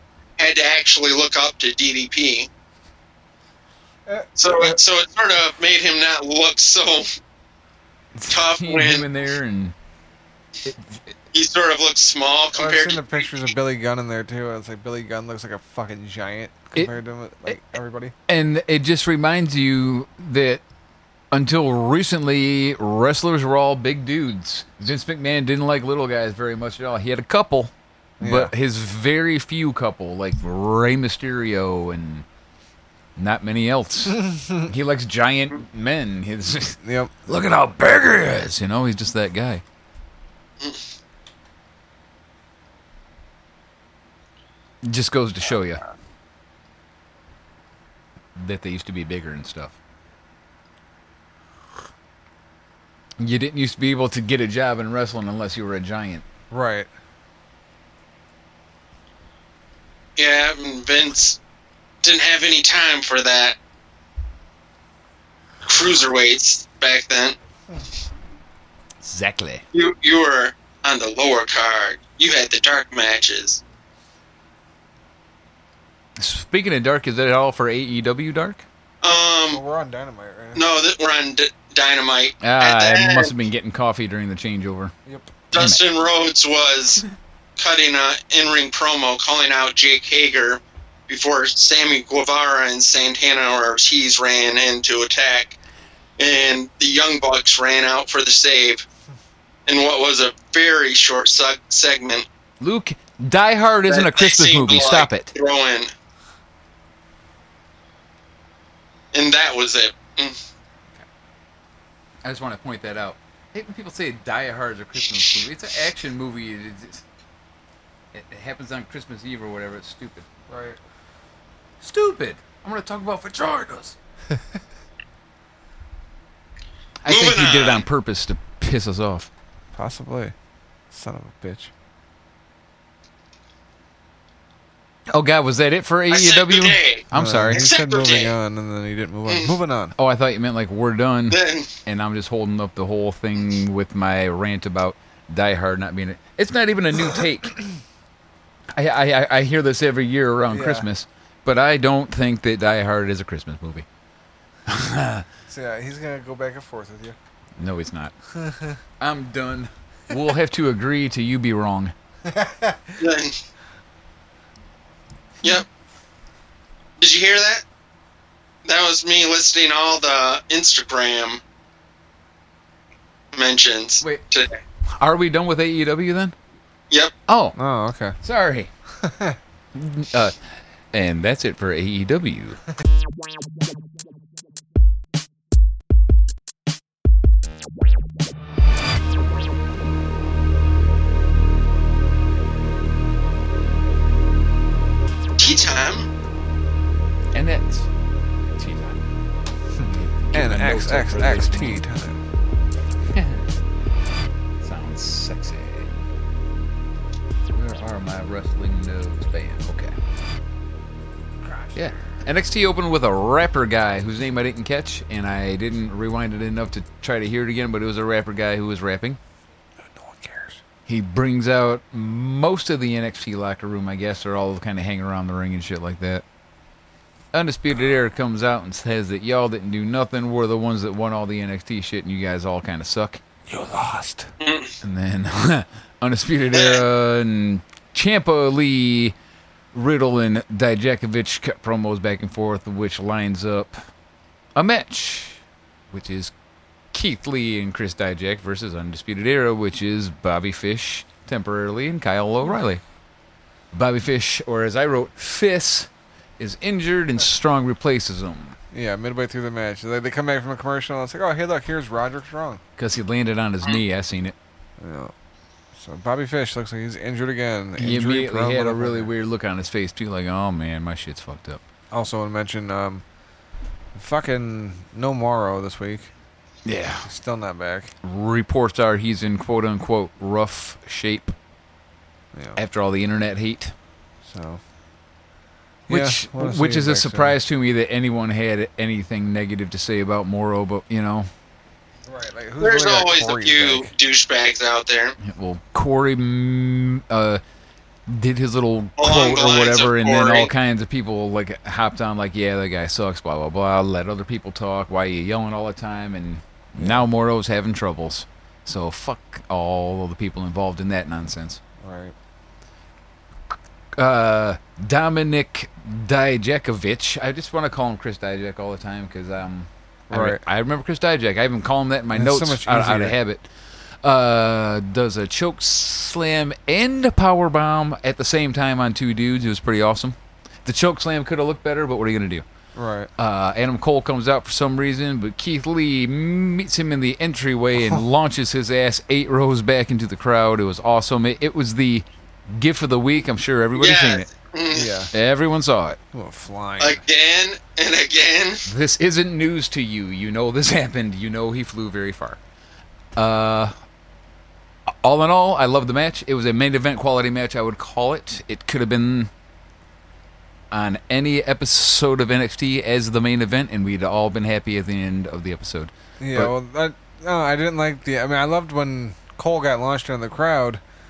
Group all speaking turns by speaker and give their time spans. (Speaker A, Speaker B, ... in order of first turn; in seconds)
Speaker A: 0.4-2.5, 4.4-7.1, 8.3-9.1, 11.3-13.2, 60.2-61.4, 62.0-63.6, 65.7-67.4, 69.7-73.6, 79.0-79.6, 80.5-83.3, 85.5-87.0, 87.6-95.5, 96.2-98.8, 99.7-102.2, 103.9-105.9, 109.1-110.4, 127.1-127.8, 136.1-138.3, 141.3-141.7, 163.0-163.3, 167.0-167.6, 168.7-171.4, 173.3-174.6, 195.4-196.1, 234.4-234.7, 236.5-236.8, 292.6-295.1, 299.0-300.5, 343.8-344.9, 346.8-348.6
Speaker B: 4.1-4.8, 12.5-18.1, 28.2-28.5, 34.1-34.7, 36.8-37.1, 56.5-56.9, 79.5-80.6, 85.1-85.3, 120.5-120.8, 129.7-130.3, 130.9-131.7, 137.1-139.9, 150.5-150.9, 155.5-157.2, 158.3-158.8, 162.3-163.0, 177.6-178.2, 179.0-179.4, 199.8-202.2, 211.4-211.9, 219.8-220.6, 233.5-234.3, 258.7-262.6, 264.8-265.1, 265.7-269.1, 271.9-273.0, 273.9-276.1, 277.1-277.9, 282.3-282.6, 284.2-284.6, 285.9-287.4, 292.1-293.9, 306.8-307.0, 311.8-312.1, 320.1-320.4, 322.1-323.2, 332.8-333.1, 337.8-338.0, 344.7-345.1, 346.1-347.0, 366.2-370.8
Speaker C: 8.2-9.8, 10.7-11.0, 16.7-17.6, 18.3-20.6, 21.3-32.3, 33.2-39.6, 44.8-45.8, 48.4-49.8, 53.2-56.3, 69.0-69.6, 76.2-78.7, 82.4-84.9, 85.5-85.8, 102.6-105.3, 112.2-117.0, 118.1-120.3, 121.8-124.0, 127.0-129.3, 135.1-137.7, 140.0-147.6, 148.8-153.9, 154.7-155.2, 157.6-158.1, 159.0-161.9, 175.0-176.3, 177.3-177.6, 178.2-178.7, 179.8-180.4, 180.9-182.6, 197.3-197.9, 198.6-199.0, 200.0-201.8, 203.1-203.5, 204.6-205.9, 207.5-210.0, 211.8-219.2, 220.9-226.2, 227.3-233.2, 234.8-239.2, 239.7-243.8, 244.6-245.4, 245.9-246.3, 246.9-252.8, 253.7-258.6, 262.8-264.4, 267.8-271.6, 276.7-277.1, 278.0-281.3, 282.6-283.7, 285.9-291.3, 295.2-297.4, 298.1-311.6, 314.0-323.5, 324.0-332.4, 333.2-344.3, 345.1-346.0, 348.7-352.4, 353.2-353.7, 355.0-359.3, 360.7-366.5